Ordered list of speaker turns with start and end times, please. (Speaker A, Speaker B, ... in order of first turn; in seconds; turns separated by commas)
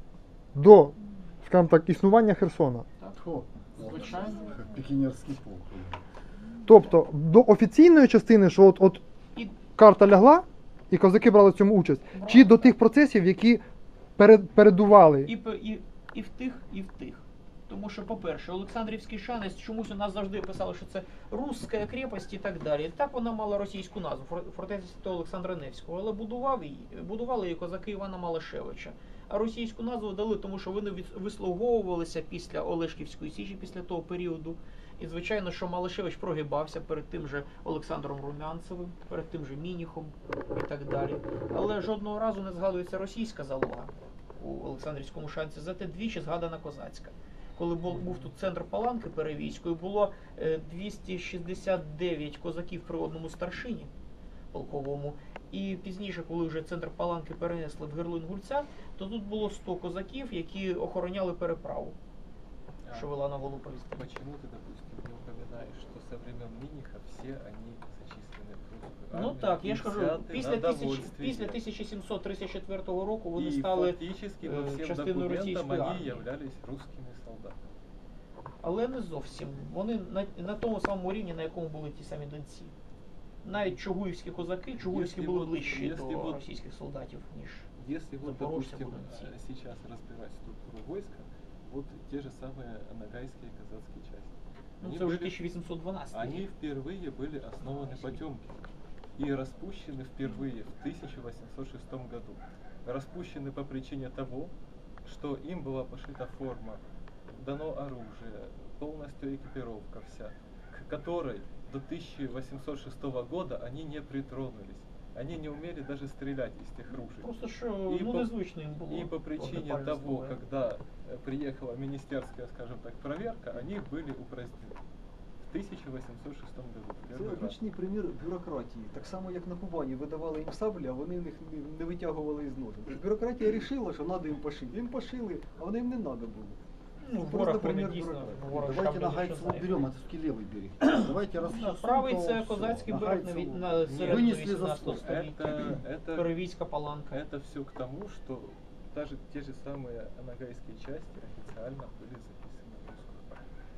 Speaker A: 0.6-2.9, Speaker B: 3.1-5.8, Speaker C: 3.8-4.6, Speaker A: 6.7-9.0, Speaker C: 9.3-9.6, Speaker A: 9.8-13.6, Speaker C: 12.1-12.8, Speaker A: 14.2-15.3, Speaker C: 15.2-53.9, Speaker D: 47.9-48.3, Speaker C: 54.5-62.0, Speaker D: 62.8-63.2, Speaker C: 62.9-64.1, Speaker D: 63.7-71.6, Speaker C: 69.1-76.2, Speaker D: 73.4-77.7, Speaker C: 78.6-82.7, Speaker C: 83.4-87.7, Speaker D: 84.8-86.4, Speaker D: 87.8-95.4, Speaker C: 88.2-89.3, Speaker C: 94.8-96.5, Speaker D: 96.1-98.6, Speaker C: 97.6-98.2, Speaker D: 99.2-117.3, Speaker C: 117.2-120.4, Speaker D: 117.9-118.3, Speaker D: 118.9-124.8, Speaker D: 125.4-127.6, Speaker E: 127.1-136.6, Speaker C: 137.0-139.9, Speaker E: 137.1-139.9, Speaker B: 138.6-143.3, Speaker C: 140.8-147.2, Speaker E: 143.2-143.6, Speaker D: 143.8-146.3, Speaker B: 144.0-145.0, Speaker D: 147.1-153.5